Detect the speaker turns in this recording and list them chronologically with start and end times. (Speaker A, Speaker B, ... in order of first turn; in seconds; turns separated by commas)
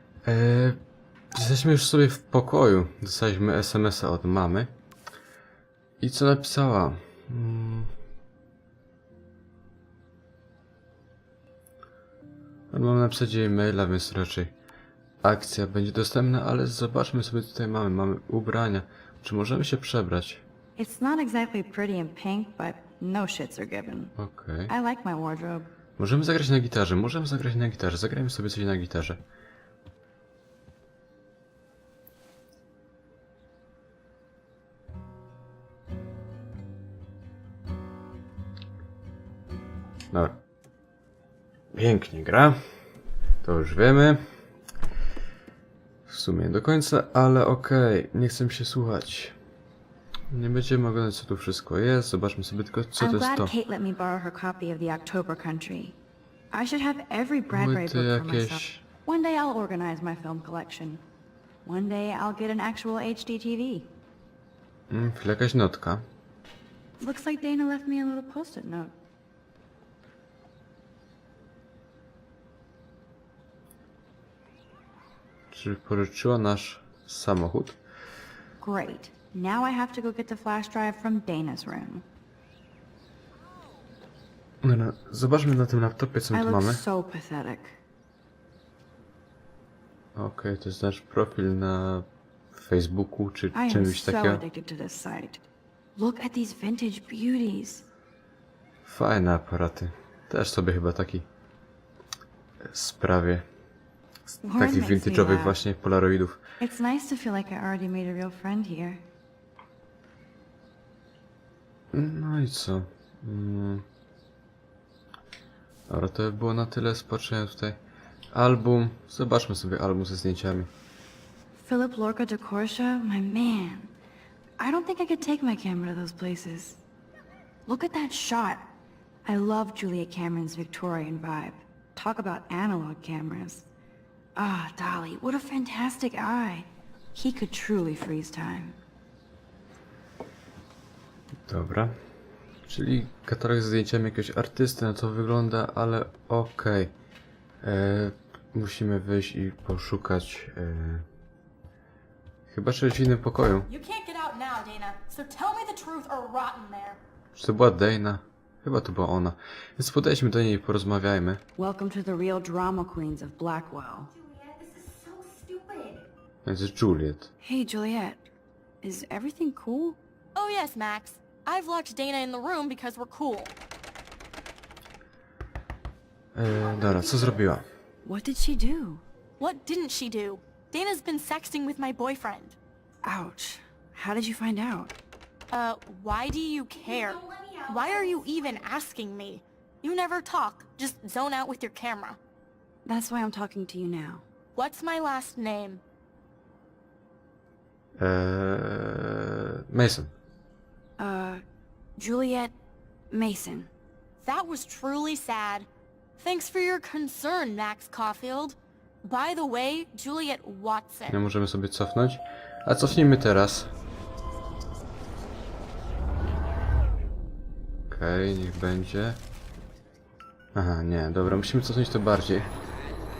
Speaker A: 0.2-0.8, Speaker A: 1.3-4.7, Speaker A: 6.0-7.9, Speaker A: 12.7-14.5, Speaker A: 15.2-20.4, Speaker B: 20.8-24.1, Speaker A: 24.2-24.7, Speaker B: 24.7-25.7, Speaker A: 26.0-29.2, Speaker A: 40.1-40.4, Speaker A: 41.7-42.6, Speaker A: 43.4-44.2, Speaker A: 46.1-49.3, Speaker A: 50.3-53.5, Speaker B: 53.0-56.0, Speaker B: 56.5-61.0, Speaker A: 57.5-58.8, Speaker B: 61.6-63.9, Speaker A: 64.9-66.0, Speaker B: 67.0-68.9, Speaker A: 75.5-77.8, Speaker B: 78.6-82.0, Speaker A: 84.6-86.8, Speaker B: 86.3-87.8, Speaker A: 90.2-94.4, Speaker B: 93.5-95.4, Speaker B: 96.0-97.8, Speaker A: 98.8-101.3, Speaker A: 102.7-103.5, Speaker B: 104.3-105.6, Speaker A: 104.6-106.4, Speaker B: 106.6-109.0, Speaker A: 111.9-113.8, Speaker A: 115.9-117.8, Speaker A: 118.3-120.7, Speaker B: 121.6-123.9, Speaker B: 124.6-126.8, Speaker B: 127.7-128.6, Speaker B: 129.2-133.7, Speaker B: 134.3-138.8, Speaker A: 141.5-141.9, Speaker A: 142.7-146.9, Speaker A: 147.6-151.0, Speaker A: 152.5-153.7, Speaker C: 153.7-157.0, Speaker A: 157.3-161.4, Speaker B: 161.6-164.1, Speaker A: 166.4-167.3, Speaker B: 167.4-168.2, Speaker B: 168.8-170.0, Speaker C: 170.3-173.5, Speaker A: 176.3-177.7, Speaker B: 178.0-179.0, Speaker C: 179.4-182.6, Speaker B: 183.0-184.9, Speaker C: 185.5-192.2, Speaker B: 187.2-187.5, Speaker B: 192.8-194.2, Speaker C: 194.6-195.8, Speaker A: 198.0-200.1, Speaker B: 201.0-201.4, Speaker B: 202.0-202.5, Speaker B: 203.1-203.7, Speaker C: 204.2-205.7, Speaker C: 206.2-211.2, Speaker A: 211.1-213.7, Speaker A: 217.9-219.2, Speaker A: 220.5-222.5